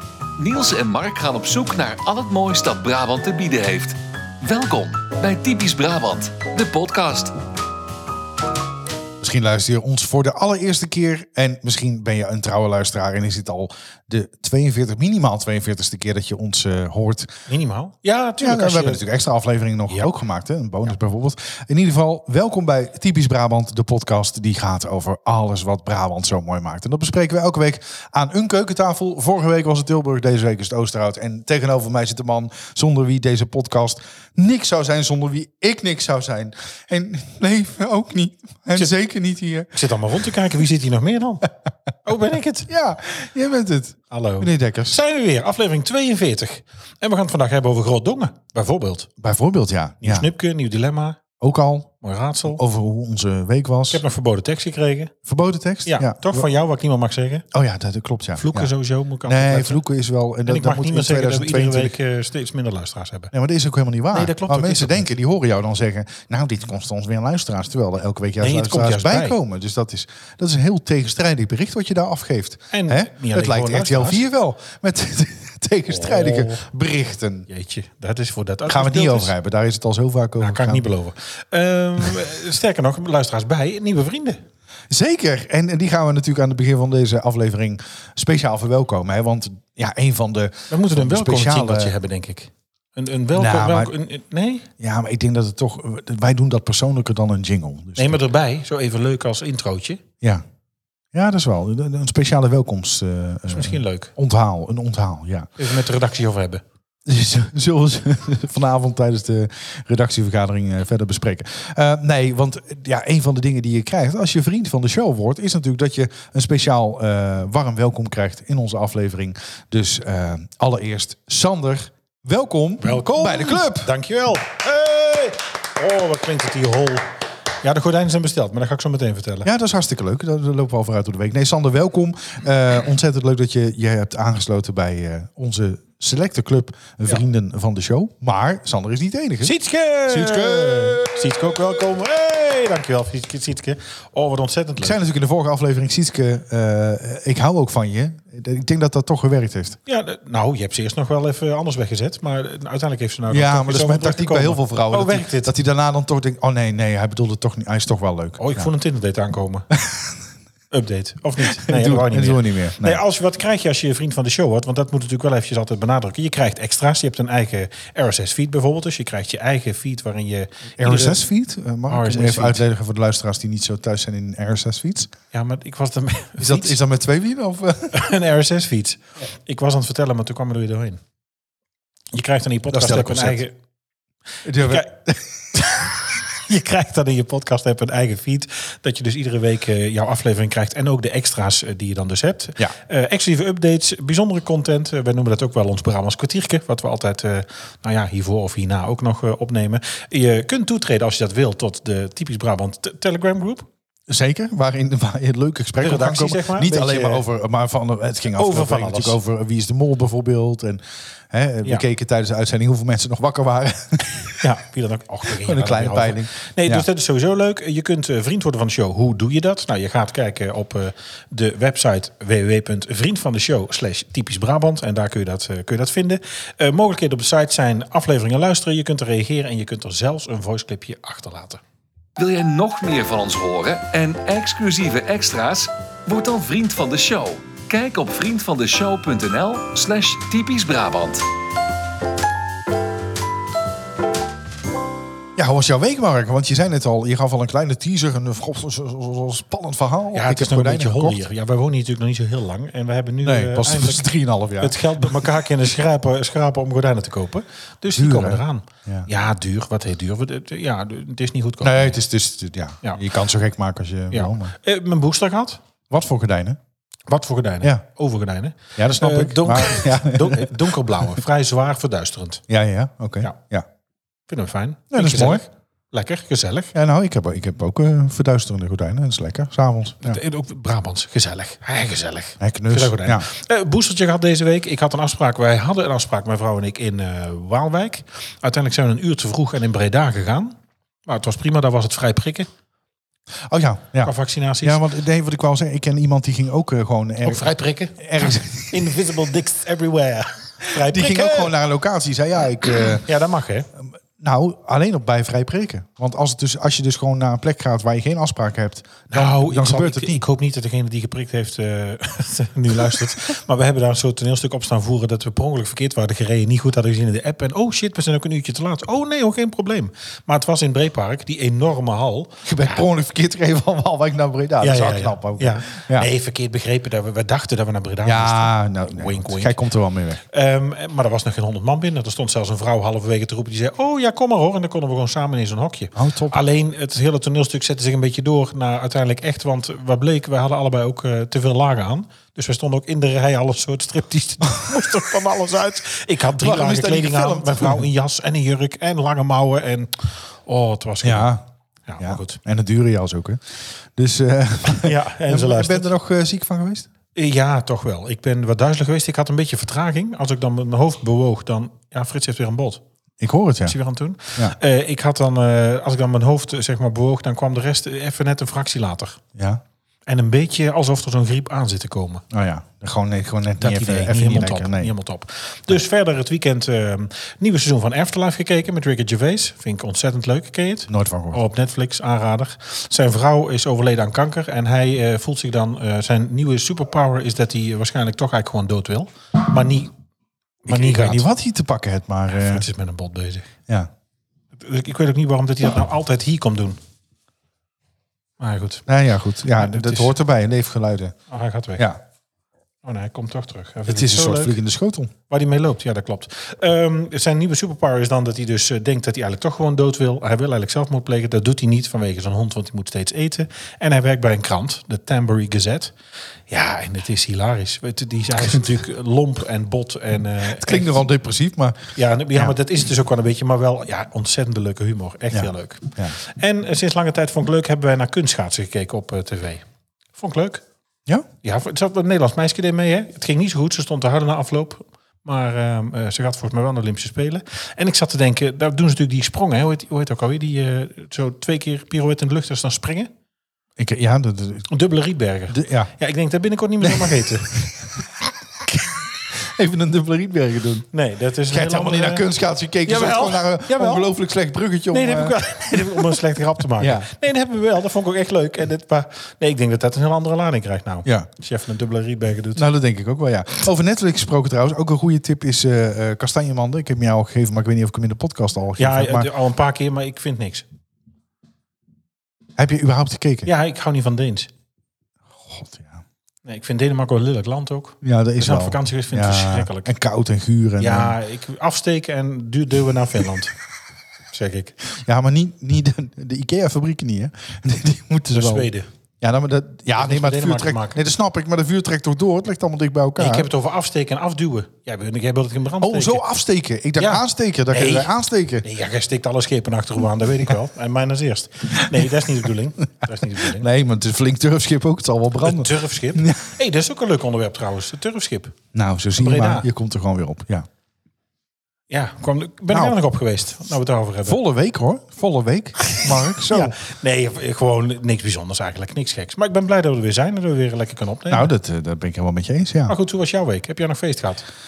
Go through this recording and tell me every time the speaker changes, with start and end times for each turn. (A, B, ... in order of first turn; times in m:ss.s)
0:00.4-0:07.4 A
0:09.2-0:17.3 B
0:17.5-0:19.0 C
0:18.4-0:39.7 B
0:39.7-0:41.5 C
0:42.0-0:42.7 C
0:42.7-0:45.0 B
0:44.1-0:49.1 C
0:49.2-0:50.3 B
0:50.0-0:51.2 C
0:51.4-0:51.9 B
0:52.0-0:52.6 C
0:52.5-0:54.0 B
0:53.9-0:55.1 C
0:55.3-0:56.5 B
0:55.9-0:57.4 C
0:57.5-0:58.7 B
0:58.4-0:59.8 C
0:59.2-1:02.0 B
1:00.5-1:03.3 C
1:03.3-1:17.5 B
1:04.1-1:05.1 C
1:08.4-1:09.4 C
1:12.7-1:14.2 C
1:15.9-1:16.6 C
1:17.5-1:19.3 C
1:18.7-1:20.8 B
1:20.4-1:24.4 C
1:24.9-1:31.9 B
1:30.7-1:34.7 C
1:33.3-1:33.9 B
1:34.8-1:38.2 B
1:38.0-1:40.0 C
1:41.1-1:45.5 B
1:43.5-1:44.1 C
1:45.6-1:46.6 C
1:47.1-2:03.9 B
2:02.8-2:07.1 C
2:07.6-2:09.5 C
2:09.4-2:19.5 B
2:19.4-2:25.0 C
2:20.1-2:21.6 B
2:24.8-2:29.8 B
2:29.9-2:35.5 C
2:33.3-2:38.7 B
2:38.4-2:39.7 C
2:39.8-2:40.2 B
2:40.7-2:51.2 C
2:41.4-2:43.0 B
2:50.8-2:55.1 B
2:51.9-2:52.6 C
2:55.3-2:56.8 C
2:56.4-2:58.0 B
2:57.9-3:01.0 C
3:02.1-3:03.6 C
3:02.7-3:03.4 B
3:04.4-3:05.4 B
3:04.6-3:04.9 C
3:05.6-3:23.7 C
3:24.1-3:34.4 B
3:25.8-3:27.2 C
3:28.3-3:29.2 C
3:34.4-3:51.6 C
3:35.4-3:36.9 B
3:52.2-4:01.2 A
4:05.4-4:11.2 B
4:10.1-4:22.0 C
4:13.2-4:15.2 B
4:17.9-4:19.1 B
4:21.6-4:24.5 B
4:24.1-4:25.6 C
4:25.9-4:26.6 B
4:27.1-4:32.4 C
4:28.8-4:30.8 B
4:32.5-4:33.7 B
4:34.3-4:36.7 C
4:34.9-4:35.4 B
4:36.7-4:40.2 B
4:40.0-4:52.5 C
4:42.4-4:43.3 B
4:53.5-4:58.9 B
4:54.0-4:54.8 C
4:57.2-5:01.6 C
5:00.8-5:03.1 B
5:03.0-5:03.7 C
5:03.8-5:10.2 B
5:09.1-5:22.8 C
5:22.4-5:26.1 B
5:24.6-5:29.6 C
5:28.0-5:30.2 B
5:30.3-5:51.3 C
5:36.0-5:36.4 B
5:44.6-5:44.9 B
5:46.4-5:47.9 B
5:51.0-5:51.4 B
5:51.9-5:52.4 C
5:52.0-5:56.9 B
5:54.7-5:55.9 C
5:57.2-6:02.8 C
6:03.2-6:03.8 B
6:03.7-6:09.2 C
6:09.4-6:09.6 B
6:10.1-6:12.2 C
6:12.3-6:14.9 B
6:13.6-6:29.9 C
6:20.9-6:21.4 B
6:30.6-6:31.3 C
6:30.7-6:32.6 B
6:32.3-6:33.5 C
6:34.6-6:36.8 C
6:38.4-6:38.8 C
6:38.9-6:41.2 B
6:39.5-6:40.2 C
6:41.3-6:41.9 C
6:42.8-6:44.6 C
6:43.9-6:45.1 B
6:45.3-6:55.9 C
6:56.5-7:01.0 C
7:00.6-7:02.5 B
7:02.0-7:09.6 C
7:05.3-7:06.2 B
7:10.2-7:10.6 C
7:11.4-7:23.1 C
7:23.8-7:24.7 B
7:24.7-7:27.6 C
7:25.5-7:25.9 B
7:26.8-7:27.7 B
7:28.7-7:30.9 B
7:30.9-7:32.2 C
7:31.5-7:37.1 B
7:32.9-7:34.1 C
7:34.9-7:42.7 C
7:42.6-7:49.3 B
7:48.8-7:50.6 C
7:52.6-7:53.5 B
7:53.4-7:54.5 C
7:55.4-7:56.0 B
7:56.5-7:59.9 C
7:58.0-8:01.2 B
8:00.8-8:03.6 C
8:04.3-8:04.8 C
8:04.9-8:13.5 B
8:08.3-8:08.9 C
8:10.0-8:11.0 C
8:13.2-8:16.2 C
8:15.8-8:18.7 B
8:17.0-8:18.1 C
8:18.6-8:23.7 C
8:21.9-8:22.3 B
8:23.0-8:26.5 B
8:25.4-8:28.6 C
8:28.7-8:30.7 B
8:29.2-8:29.7 C
8:31.9-8:34.4 C
8:32.7-8:33.0 B
8:34.3-8:36.8 B
8:35.8-8:41.5 C
8:41.3-8:43.0 B
8:42.9-8:44.5 C